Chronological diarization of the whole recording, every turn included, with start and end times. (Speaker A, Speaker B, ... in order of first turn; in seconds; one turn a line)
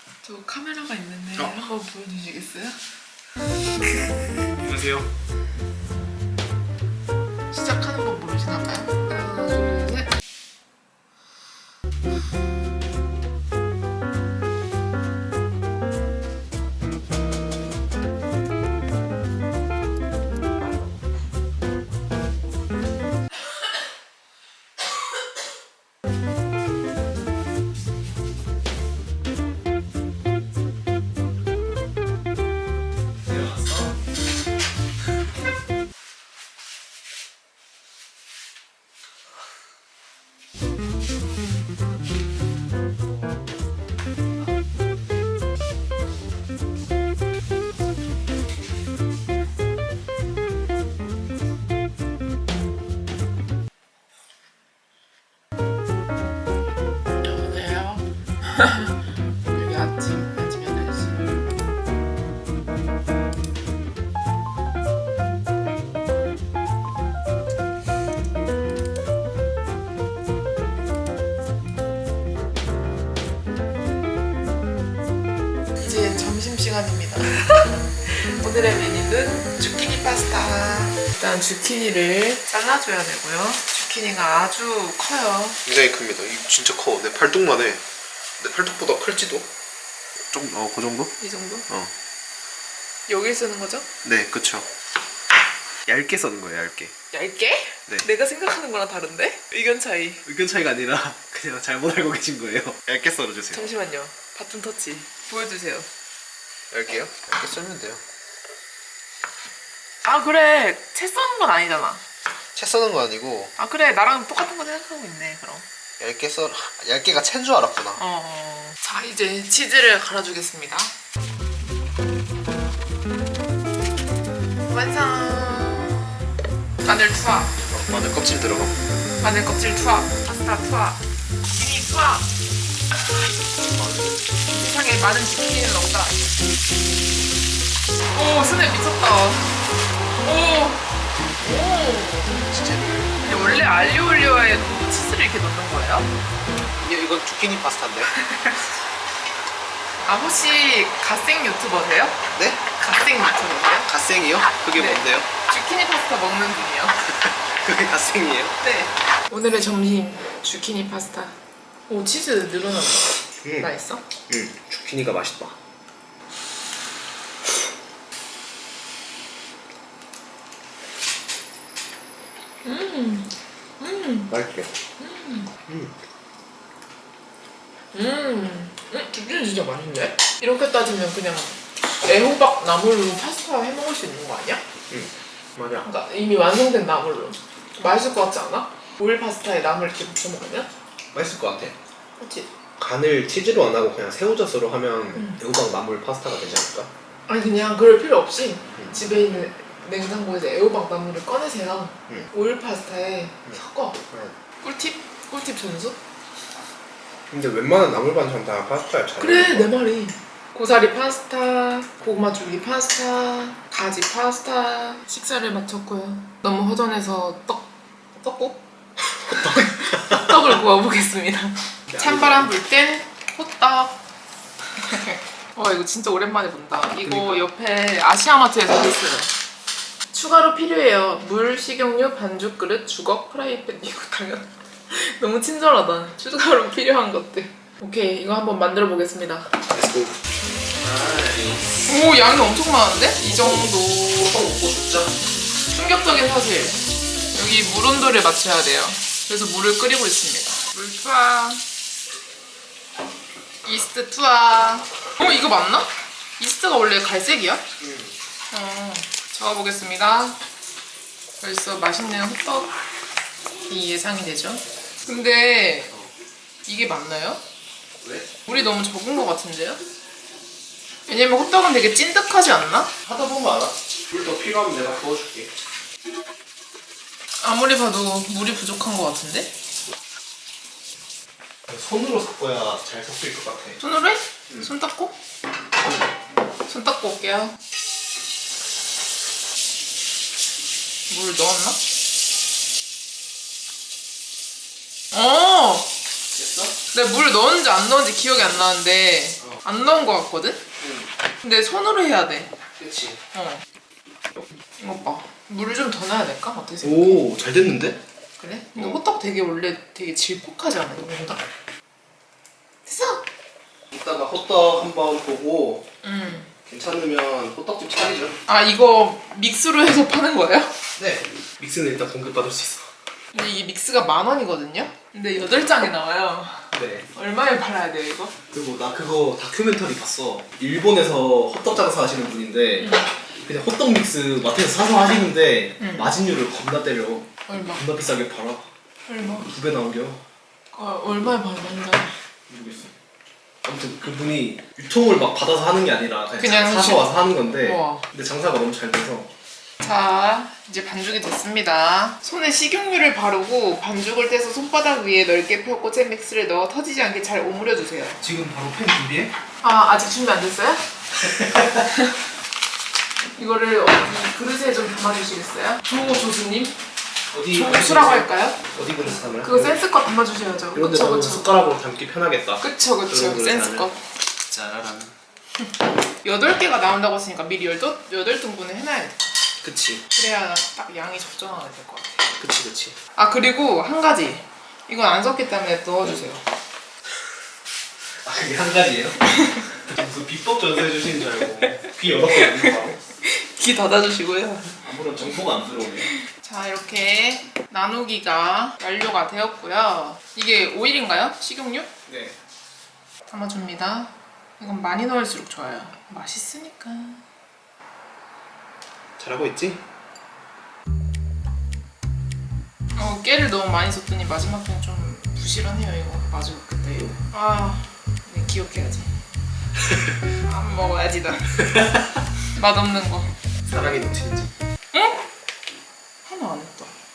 Speaker A: 0.2-2.8
Speaker B: 4.5-5.1
Speaker A: 7.5-10.1
Speaker B: 33.2-34.0
Speaker A: 57.0-58.9
Speaker A: 59.5-61.4
Speaker A: 75.8-85.6
Speaker B: 85.6-87.8
Speaker B: 88.4-89.5
Speaker B: 90.3-91.1
Speaker A: 91.2-91.7
Speaker A: 93.1-93.9
Speaker B: 94.0-94.7
Speaker B: 95.8-96.9
Speaker A: 97.1-100.2
Speaker B: 100.2-103.7
Speaker A: 103.5-105.9
Speaker B: 106.7-108.0
Speaker A: 110.0-112.0
Speaker B: 112.5-113.5
Speaker A: 113.6-115.6
Speaker B: 116.0-118.0
Speaker A: 118.0-120.9
Speaker A: 124.7-126.1
Speaker A: 126.8-127.5
Speaker B: 127.7-128.7
Speaker A: 129.2-131.0
Speaker A: 131.5-132.3
Speaker B: 133.6-134.2
Speaker A: 134.5-136.3
Speaker A: 138.1-139.6
Speaker A: 140.2-140.8
Speaker A: 141.4-142.3
Speaker B: 142.3-143.1
Speaker A: 143.2-146.1
Speaker B: 146.8-148.1
Speaker A: 148.1-148.6
Speaker A: 150.1-152.2
Speaker B: 152.3-152.6
Speaker A: 152.7-153.9
Speaker B: 153.8-155.3
Speaker A: 154.7-157.0
Speaker B: 157.3-158.5
Speaker A: 158.6-161.3
Speaker A: 161.9-164.0
Speaker B: 163.4-163.7
Speaker B: 164.3-165.6
Speaker A: 172.6-174.3
Speaker B: 174.3-174.7
Speaker A: 175.0-175.5
Speaker B: 175.7-175.9
Speaker A: 177.9-184.6
Speaker B: 184.9-185.9
Speaker A: 185.8-190.7
Speaker B: 191.1-191.8
Speaker A: 192.2-192.5
Speaker B: 192.8-196.9
Speaker A: 197.3-204.0
Speaker A: 204.6-206.0
Speaker B: 207.3-209.7
Speaker A: 209.2-218.6
Speaker A: 219.3-224.0
Speaker B: 219.3-220.3
Speaker B: 221.9-222.5
Speaker A: 224.8-229.3
Speaker B: 227.0-227.4
Speaker A: 230.1-239.5
Speaker B: 239.7-240.2
Speaker B: 240.8-241.8
Speaker A: 241.8-244.2
Speaker B: 243.3-245.1
Speaker A: 245.7-246.8
Speaker A: 247.3-251.6
Speaker A: 253.6-257.6
Speaker B: 257.8-258.1
Speaker A: 258.5-260.4
Speaker A: 261.4-262.7
Speaker A: 263.7-265.9
Speaker A: 266.7-267.4
Speaker B: 268.0-268.3
Speaker A: 268.5-269.8
Speaker A: 271.1-272.9
Speaker B: 273.0-275.5
Speaker A: 277.4-279.5
Speaker B: 281.7-283.8
Speaker A: 283.8-285.1
Speaker A: 286.6-287.6
Speaker A: 291.1-291.8
Speaker A: 295.1-295.9
Speaker B: 296.3-296.8
Speaker A: 296.9-300.6
Speaker B: 300.8-301.1
Speaker A: 301.4-302.5
Speaker B: 302.8-303.2
Speaker A: 303.3-303.6
Speaker A: 304.8-307.3
Speaker B: 306.8-308.0
Speaker A: 308.4-311.4
Speaker B: 308.7-309.0
Speaker A: 312.9-313.2
Speaker B: 313.9-315.9
Speaker A: 316.0-316.5
Speaker B: 316.6-318.4
Speaker A: 318.5-320.7
Speaker B: 321.0-322.9
Speaker A: 323.3-328.4
Speaker B: 326.7-327.1
Speaker B: 328.5-338.7
Speaker A: 332.8-333.1
Speaker A: 335.8-336.1
Speaker A: 337.5-337.8
Speaker A: 339.1-339.5
Speaker B: 339.4-340.2
Speaker A: 340.7-342.1
Speaker B: 342.5-342.9
Speaker B: 343.6-349.3
Speaker A: 346.4-348.0
Speaker A: 349.8-358.2
Speaker B: 358.2-359.3
Speaker A: 359.6-360.8
Speaker B: 361.2-361.9
Speaker A: 363.4-366.8
Speaker B: 367.3-369.8
Speaker A: 367.5-368.6
Speaker A: 369.4-371.6
Speaker B: 370.7-375.1
Speaker A: 372.6-374.0
Speaker A: 376.2-379.2
Speaker B: 379.6-380.0
Speaker A: 380.1-382.3
Speaker B: 382.4-383.0
Speaker A: 383.1-386.4
Speaker B: 388.2-389.2
Speaker B: 389.8-393.0
Speaker A: 391.8-394.8
Speaker B: 394.8-396.1
Speaker A: 396.0-401.9
Speaker B: 402.1-402.4
Speaker A: 403.3-407.2
Speaker B: 409.2-409.8
Speaker A: 412.9-419.1
Speaker A: 420.4-421.6
Speaker A: 422.5-423.3
Speaker B: 423.6-424.5
Speaker A: 424.9-425.2
Speaker A: 426.2-426.9